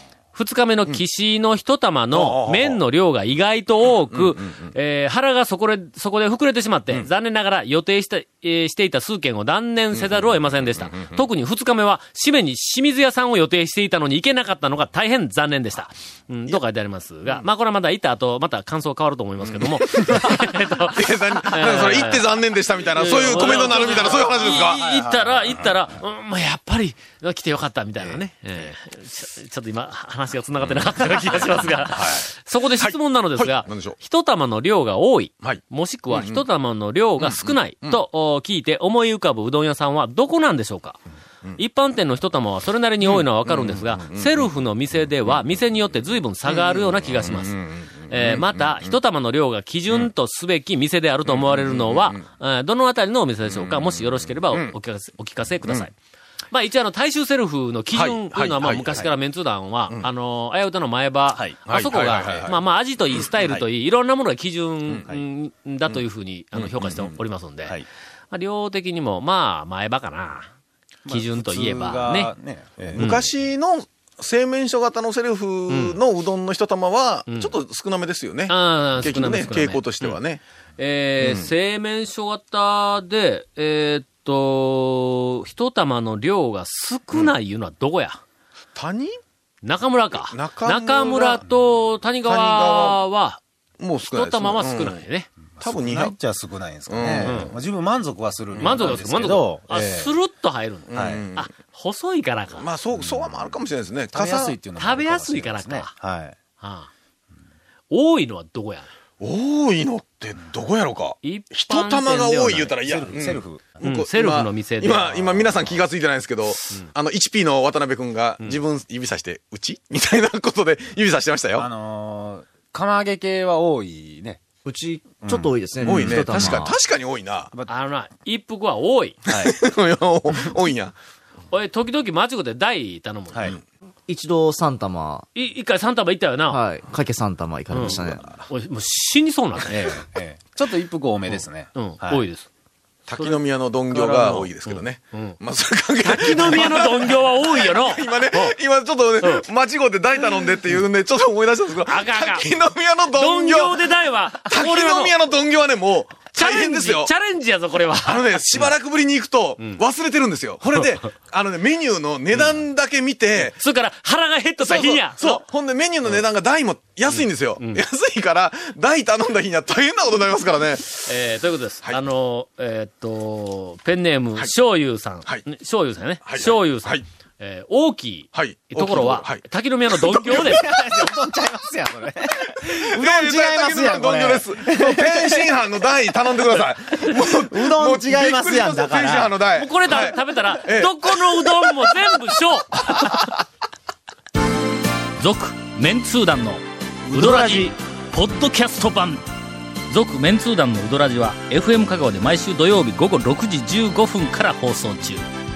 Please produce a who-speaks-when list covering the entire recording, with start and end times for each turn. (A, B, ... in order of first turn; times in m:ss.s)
0:00.3-0:22.3 A
0:02.1-0:02.8 B
0:04.1-0:04.7 B
0:10.0-0:11.2 B
0:19.4-0:24.8 B
0:22.9-0:41.0 A
0:23.3-0:25.6 C
0:31.8-0:32.2 B
0:32.8-0:34.0 B
0:35.4-0:36.4 B
0:37.2-0:38.0 B
0:41.6-0:55.9 A
0:43.0-0:44.5 B
0:46.5-0:49.0 B
0:51.3-0:52.2 B
0:53.5-0:54.7 B
0:56.5-1:10.5 A
0:58.0-0:59.1 B
1:01.4-1:02.5 C
1:01.7-1:02.6 B
1:06.6-1:07.2 B
1:11.0-1:13.1 C
1:11.1-1:12.3 A
1:13.0-1:13.3 A
1:13.0-1:20.4 B
1:15.7-1:16.0 A
1:17.3-1:17.6 A
1:18.5-1:20.2 A
1:20.8-1:28.2 A
1:21.2-1:21.5 B
1:28.8-1:29.2 B
1:29.6-1:33.4 A
1:30.3-1:31.4 B
1:32.2-1:33.0 B
1:33.8-1:35.0 B
1:34.1-1:35.3 A
1:35.6-1:40.1 C
1:35.6-1:36.2 B
1:36.9-1:37.6 B
1:37.2-1:37.5 A
1:38.6-1:39.0 B
1:38.6-1:42.7 A
1:40.9-1:41.5 B
1:40.9-1:41.3 C
1:42.6-1:44.6 B
1:44.1-1:46.4 C
1:44.8-1:45.9 A
1:46.6-1:46.9 A
1:47.9-1:48.9 A
1:49.2-2:01.7 B
1:51.2-1:52.7 A
1:52.4-1:53.7 C
1:53.8-1:55.2 A
1:55.2-1:55.8 C
2:01.6-2:04.4 C
2:04.6-2:06.8 D
2:05.2-2:06.6 C
2:05.8-2:07.5 B
2:07.7-2:09.2 A
2:09.3-2:09.5 C
2:09.3-2:10.9 B
2:11.5-2:13.6 A
2:13.3-2:13.6 C
2:14.1-2:15.3 D
2:15.4-2:16.6 A
2:16.5-2:18.2 D
2:17.7-2:20.0 A
2:19.7-2:22.2 C
2:21.3-2:22.5 A
2:23.1-2:33.8 B
2:23.2-2:25.4 A
2:26.0-2:28.6 A
2:31.9-2:32.5 A
2:33.2-2:35.2 A
2:34.4-2:37.1 B
2:36.3-2:38.7 A
2:38.0-2:43.6 B
2:43.4-2:45.4 A
2:44.6-2:51.0 B
2:47.1-2:47.8 A
2:51.0-3:00.7 A
2:56.2-2:57.0 B
2:58.3-2:59.4 B
3:00.0-3:00.5 B
3:00.2-3:05.6 C
3:02.5-3:12.1 B
3:06.6-3:09.4 C
3:09.6-3:13.3 A
3:13.0-3:13.3 B
3:15.2-3:19.2 E
3:17.1-3:17.7 C
3:19.9-3:25.2 E